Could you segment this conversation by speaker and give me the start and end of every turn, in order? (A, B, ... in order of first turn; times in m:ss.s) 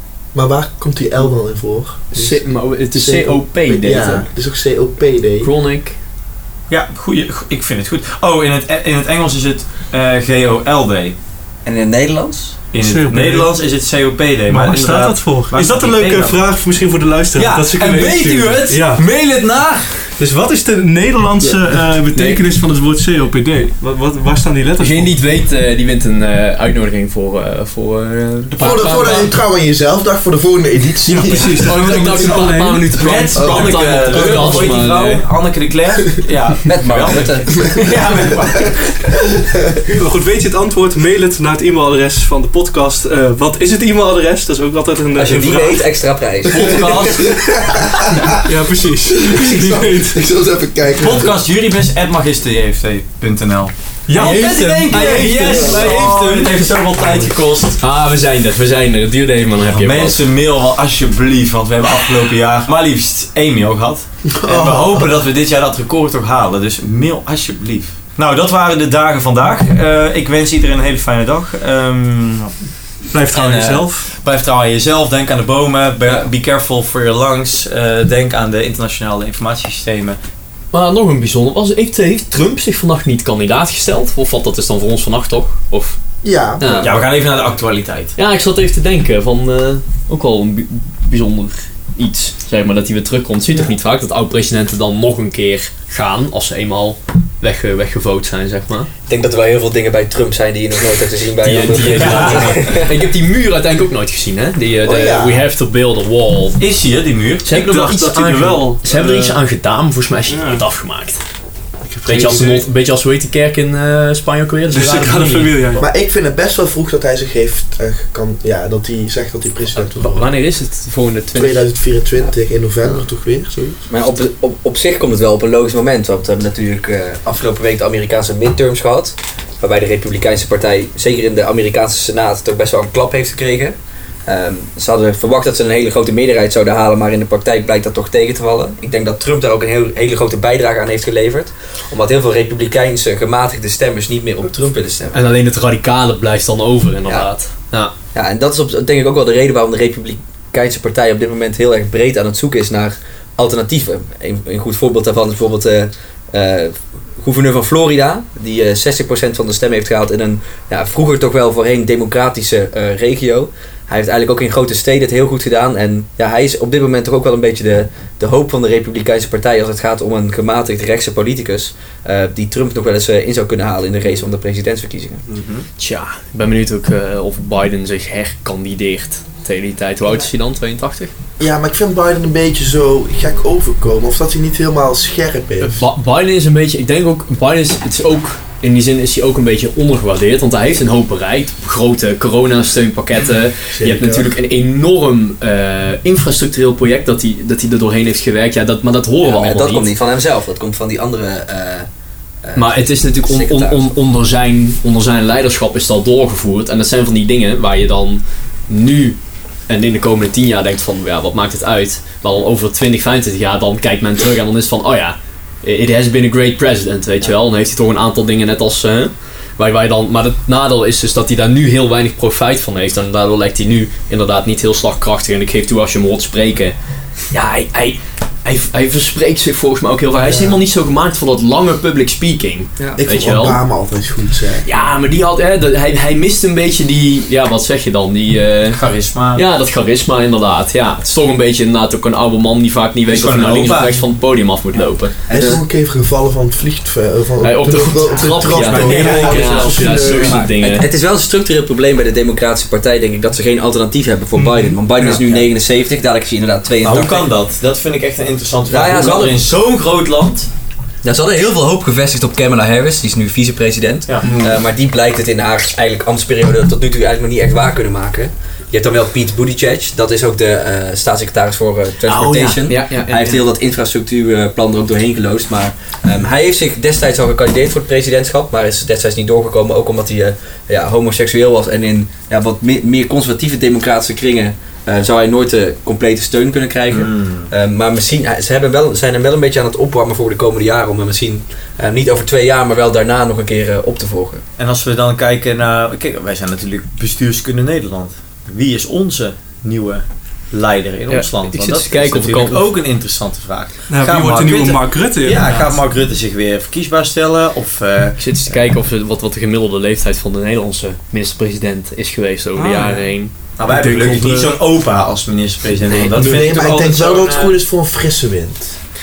0:00.3-0:05.5 A
0:02.1-0:04.3 B
0:05.4-0:06.0 B
0:06.7-0:11.2 C
0:11.6-0:12.6 D
0:12.7-0:16.4 C
0:12.8-0:13.5 E
0:14.5-0:19.0 E
0:17.4-0:19.9 C
0:20.2-0:25.2 E
0:24.8-0:29.3 B
0:28.5-0:29.3 C
0:28.6-0:31.8 A
0:31.1-0:32.9 E
0:31.6-0:35.2 B
0:33.0-0:39.0 C
0:33.4-0:34.6 A
0:36.7-0:37.8 D
0:39.9-0:45.9 E
0:45.2-0:47.3 D
0:46.5-0:47.3 C
0:46.6-0:48.4 A
0:48.4-0:50.2 E
0:49.1-0:51.4 A
0:51.0-0:57.8 C
0:54.1-0:55.9 E
0:54.1-0:56.7 B
0:55.5-0:55.8 A
0:57.8-1:00.2 B
0:59.7-1:12.5 C
1:04.3-1:05.2 A
1:13.1-1:14.1 E
1:13.3-1:20.2 C
1:20.7-1:26.0 B
1:26.2-1:27.0 A
1:26.6-1:26.9 B
1:26.8-1:28.2 C
1:28.2-1:38.9 B
1:39.1-1:42.9 D
1:41.4-1:46.6 B
1:42.0-1:42.4 C
1:44.8-1:45.4 A
1:46.6-1:47.5 C
1:47.4-1:51.2 B
1:47.5-1:49.4 E
1:50.3-1:50.6 E
1:51.9-1:52.7 E
1:52.1-1:55.7 B
1:54.7-1:55.8 E
1:55.8-2:00.3 A
1:59.7-2:01.6 B
2:01.3-2:03.8 A
2:03.9-2:25.2 D
2:25.1-2:27.9 B
2:28.1-2:55.2 D
2:55.3-2:55.7 C
2:55.8-3:01.1 B
3:01.4-3:05.9 A
3:05.6-3:19.9 B
3:13.7-3:14.4 A
3:19.2-3:21.9 D
3:22.4-3:23.9 D
3:22.6-3:29.2 B
3:29.7-3:46.8 B
3:47.3-3:53.6 B
3:50.2-3:50.6 A
3:53.0-3:54.8 A
3:54.6-3:58.8 B
3:58.7-3:59.4 C
3:59.3-4:05.2 B
4:03.1-4:04.0 C
4:05.3-4:05.6 D
4:05.3-4:10.5 A
4:07.4-4:10.9 B
4:08.8-4:09.6 C
4:08.8-4:10.3 E
4:10.1-4:17.3 D
4:14.4-4:15.2 E
4:15.2-4:15.4 C
4:16.8-4:20.5 C
4:18.7-4:19.5 D
4:21.0-4:54.4 D
4:32.1-4:33.4 B
4:46.9-4:47.5 C
4:54.6-5:08.2 C
5:01.1-5:02.6 B
5:03.9-5:05.8 E
5:08.2-5:13.3 B
5:12.6-5:13.0 E
5:13.6-5:17.6 C
5:13.7-5:14.6 E
5:16.2-5:18.8 A